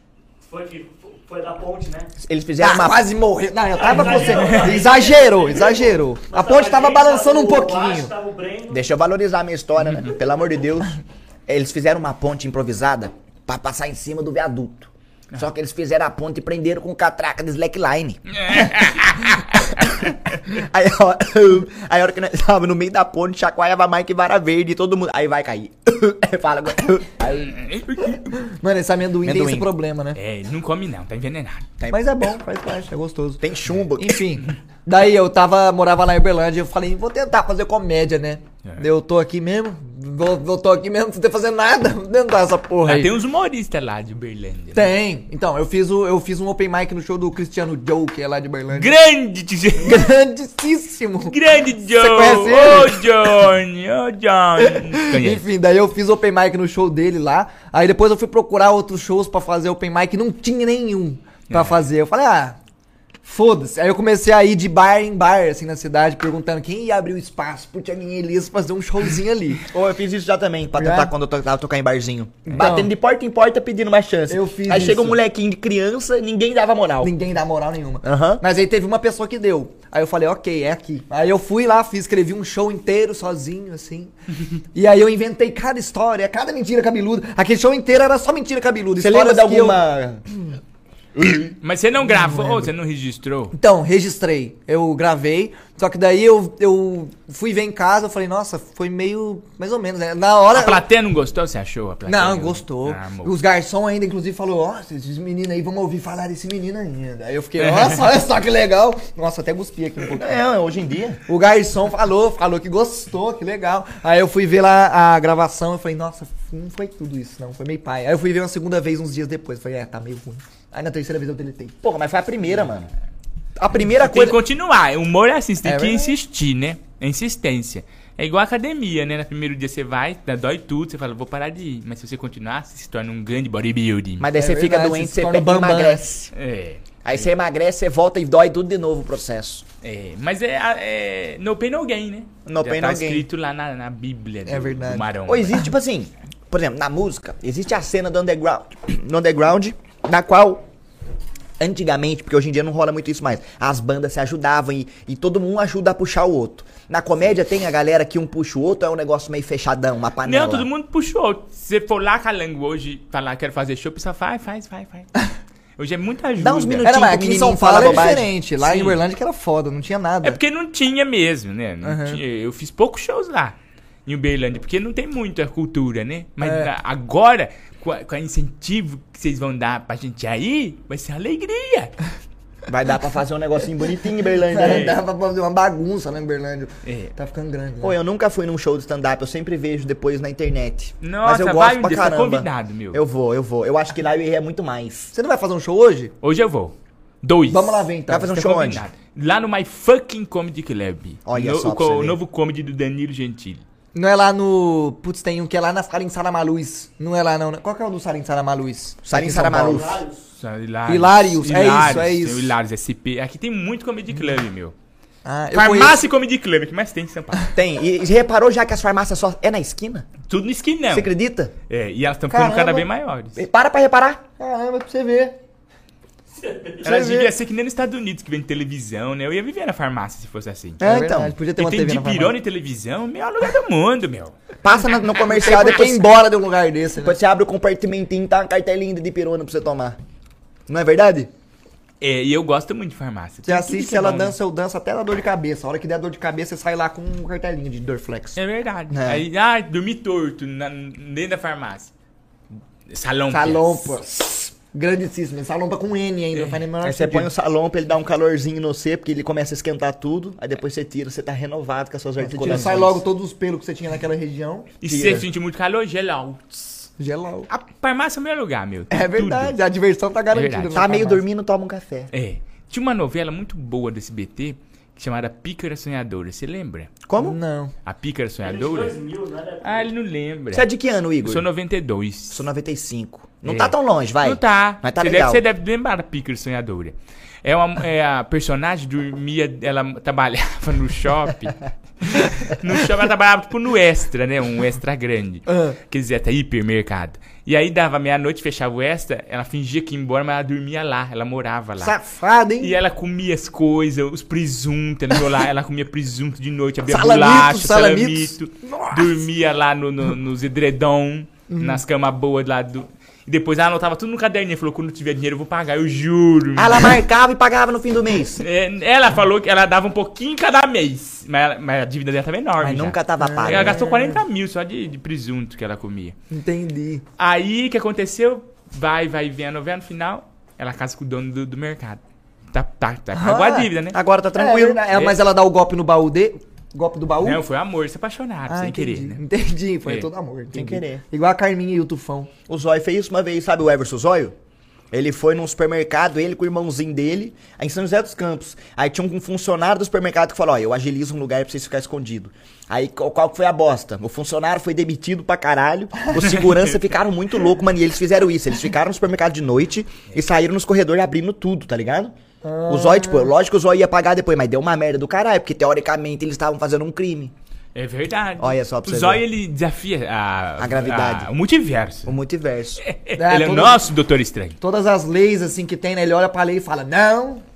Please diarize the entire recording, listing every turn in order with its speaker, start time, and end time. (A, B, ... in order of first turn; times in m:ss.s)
0:00.5-0:02.1 A
0:02.2-0:03.0 B
0:02.6-0:08.1 C
0:03.8-0:08.8 A
0:04.3-0:04.8 D
0:08.7-0:18.4 B
0:18.3-0:20.1 D
0:19.6-0:27.5 B
0:27.2-0:28.4 D
0:28.3-0:30.2 C
0:29.2-0:29.7 B
0:30.1-0:31.7 D
0:31.8-0:32.2 B
0:31.9-0:33.4 C
0:33.4-0:34.2 B
0:34.0-0:43.1 C
0:42.8-0:44.9 D
0:44.7-0:48.9 C
0:48.7-0:50.0 D
0:49.8-0:53.0 C
0:51.3-0:55.4 D
0:54.7-1:02.6 C
1:01.5-1:01.8 D
1:03.2-1:09.6 C
1:09.7-1:17.1 B
1:10.8-1:11.1 C
1:12.4-1:12.9 C
1:14.3-1:15.2 C
1:17.0-1:24.1 C
1:18.0-1:18.4 B
1:24.7-1:29.8 C
1:29.0-1:30.2 B
1:31.2-1:31.5 B
1:31.6-1:33.5 D
1:32.0-1:32.7 C
1:33.5-1:40.8 C
1:40.5-1:43.3 D
1:42.1-1:50.4 C
1:47.6-1:48.0 D
1:50.1-1:51.2 B
1:51.3-2:01.8 C
2:01.8-2:02.9 B
2:03.6-2:04.3 C
2:03.8-2:14.3 D
2:05.6-2:06.2 C
2:14.2-2:16.3 B
2:14.4-2:16.1 C
2:16.3-2:17.3 D
2:17.0-2:19.6 B
2:19.8-2:25.6 D
2:22.4-2:23.2 B
2:24.4-2:25.1 C
2:25.2-2:30.6 B
2:31.6-2:40.7 B
2:40.2-2:45.1 D
2:45.8-2:46.9 D
2:46.4-2:48.3 B
2:46.8-2:50.4 C
2:47.8-2:49.0 D
2:50.2-3:01.9 D
2:51.8-2:52.2 C
2:56.4-2:56.7 C
3:02.7-3:05.0 B
3:04.5-3:08.0 C
3:04.6-3:04.9 D
3:06.8-3:07.1 D
3:07.8-3:15.1 B
3:11.0-3:13.0 D
3:15.1-3:16.1 C
3:16.2-3:23.6 D
3:17.5-3:18.4 C
3:18.1-3:18.8 B
3:21.2-3:22.2 B
3:23.9-3:30.0 C
3:29.0-3:30.0 B
3:29.6-3:30.2 A
3:30.4-3:34.7 D
3:30.8-3:32.5 C
3:35.2-3:36.0 C
3:35.5-3:37.5 D
3:37.5-3:40.1 B
3:40.3-3:41.1 D
3:40.9-3:41.5 B
3:41.7-3:43.4 D
3:42.3-3:42.9 C
3:43.4-3:44.2 B
3:44.4-3:45.4 C
3:46.3-3:46.8 A
3:46.8-3:47.3 C
3:46.8-3:50.8 D
3:50.8-3:51.4 B
3:50.8-3:52.3 C
3:51.6-3:54.4 D
3:54.6-3:56.0 B
3:55.3-3:57.1 C
3:57.0-4:00.0 B
4:00.7-4:01.3 B
4:02.0-4:04.3 D
4:03.4-4:08.4 C
4:08.4-4:11.9 D
4:08.9-4:09.2 B
4:12.9-4:13.9 D
4:13.3-4:17.3 C
4:16.3-4:16.6 D
4:16.8-4:23.0 B
4:22.2-4:24.7 C
4:24.8-4:26.9 D
4:24.8-4:25.2 B
4:27.0-4:27.5 C
4:27.5-4:29.6 D
4:28.9-4:31.2 C
4:30.3-4:30.8 D
4:30.7-4:32.1 B
4:32.1-4:36.9 D
4:37.0-4:37.4 B
4:37.2-4:37.7 C
4:37.8-4:39.0 D
4:38.4-4:39.9 A
4:39.6-4:40.7 D
4:40.5-4:41.5 B
4:41.2-4:42.5 D
4:42.3-4:45.4 B
4:43.4-5:02.0 D
4:55.5-4:55.8 C
5:01.8-5:02.7 C
5:02.6-5:17.0 D
5:06.9-5:09.2 C
5:11.5-5:11.8 C
5:16.6-5:18.4 B
5:18.4-5:26.2 D
5:22.6-5:23.8 B
5:23.2-5:24.2 C
5:26.3-5:27.0 C
5:27.2-5:32.0 D
5:32.5-5:34.0 D
5:33.1-5:33.7 C
5:33.9-5:34.8 B
5:34.3-5:37.4 C
5:34.9-5:35.2 D
5:37.2-5:39.2 D
5:38.5-5:42.3 C
5:40.5-5:41.0 B
5:42.5-5:44.3 B
5:44.9-6:02.1 B
5:56.2-5:56.7 D
6:02.4-6:03.3 C
6:02.7-6:07.3 B
6:07.7-6:12.2 D
6:08.4-6:09.2 B
6:10.6-6:11.3 B
6:12.0-6:12.8 B
6:12.8-6:14.6 D
6:13.2-6:13.9 C
6:14.6-6:17.4 C